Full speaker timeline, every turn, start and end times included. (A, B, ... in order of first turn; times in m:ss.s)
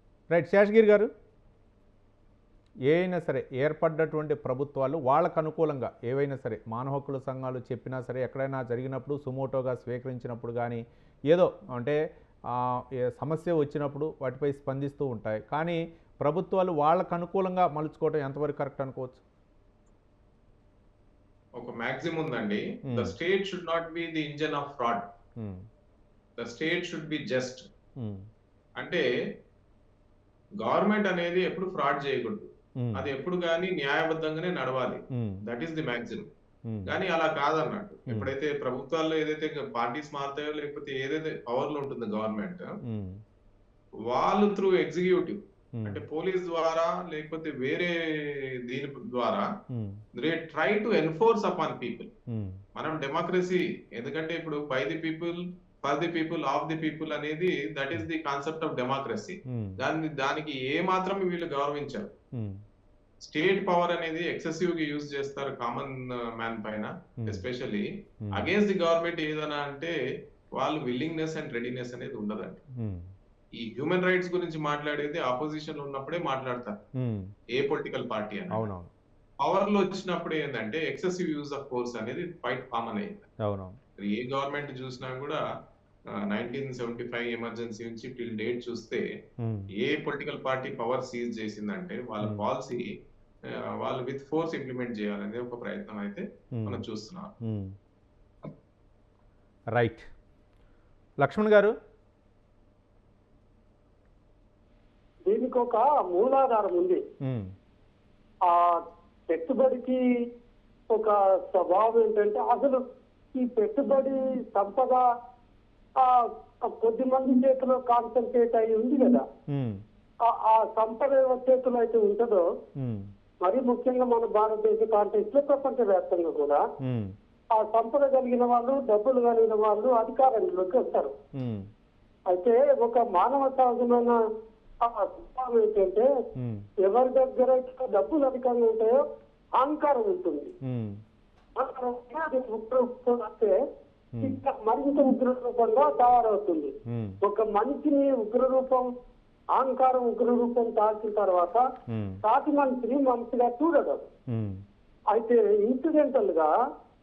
0:00.3-0:01.1 A
0:02.9-0:19.2 A
0:21.6-0:25.1 B
0:22.9-0:23.1 A
0:25.4-0:25.7 A
0:26.4-0:27.7 B
0:28.0-0:28.3 A
0:28.8-0:29.1 B
0:30.6-0:36.3 B
0:32.8-0:33.1 A
0:35.1-0:35.4 A
0:36.7-0:36.9 A
0:36.9-0:42.8 B
0:42.8-0:43.2 A
0:44.1-0:49.5 B
0:45.8-0:46.0 A
0:49.7-0:50.0 A
0:50.2-0:52.1 B
0:52.3-0:52.6 A
0:52.8-1:02.1 B
0:59.5-0:59.8 A
1:02.4-1:02.6 A
1:03.2-1:10.0 B
1:08.2-1:08.5 A
1:10.5-1:12.6 B
1:12.8-1:13.1 A
1:13.6-1:16.8 B
1:17.0-1:17.3 A
1:17.5-1:18.7 B
1:18.5-1:18.9 A
1:19.4-1:23.3 B
1:23.4-1:23.8 A
1:24.0-1:25.4 B
1:26.1-1:29.0 B
1:29.4-1:29.7 A
1:29.8-1:32.9 B
1:32.2-1:32.5 A
1:33.4-1:37.3 B
1:36.5-1:36.8 A
1:37.4-1:37.8 A
1:39.7-1:40.1 A
1:41.2-1:41.7 A
1:45.3-1:47.0 C
1:47.2-1:47.5 A
1:48.5-1:50.0 C
1:50.9-1:52.8 C
1:53.4-1:55.0 C
1:56.0-1:59.2 C
1:59.5-1:59.8 A
2:00.2-2:02.4 C
2:02.8-2:03.1 A
2:03.4-2:06.6 C
2:06.8-2:07.2 A
2:07.6-2:11.1 C
2:11.4-2:11.7 A
2:12.3-2:14.2 C
2:14.8-2:16.1 C
2:16.4-2:16.7 A
2:16.8-2:19.0 C
2:19.6-2:20.5 C
2:20.6-2:21.0 A
2:21.6-2:23.5 C
2:24.2-2:28.9 C
2:26.9-2:27.2 A
2:29.6-2:31.6 C
2:31.9-2:32.2 A
2:32.2-2:34.1 C
2:34.3-2:34.6 A
2:35.1-2:36.5 C